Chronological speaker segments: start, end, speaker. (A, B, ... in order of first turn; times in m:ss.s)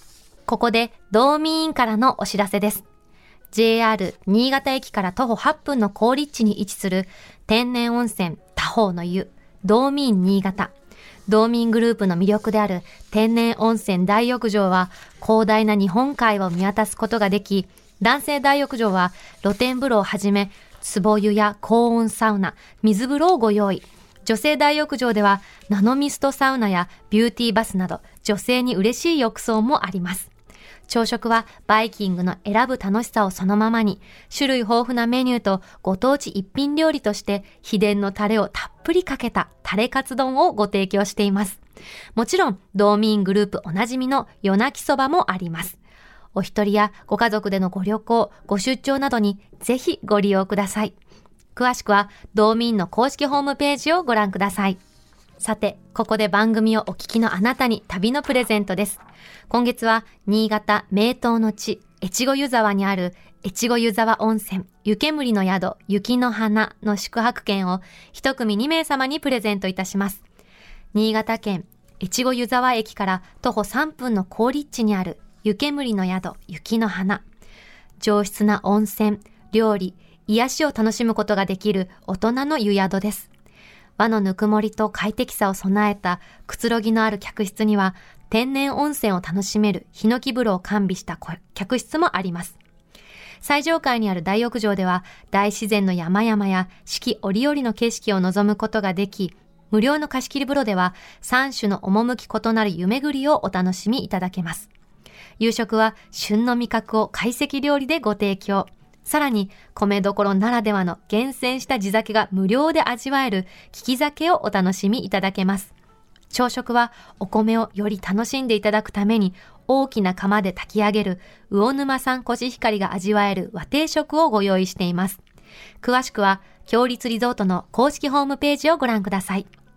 0:00.5-0:02.8 A
0:03.5-0:10.7 A
0:11.3-0:30.3 A
0:30.9-0:41.6 A
0:42.2-0:45.8 A
0:46.4-0:51.0 A
0:51.6-0:54.8 A
0:55.4-1:10.2 A
1:10.9-1:17.2 A
1:18.0-1:23.3 A
1:24.0-1:32.6 A
1:33.4-1:44.7 A
1:45.4-1:55.7 A
1:56.3-2:05.2 A
2:05.8-2:09.5 A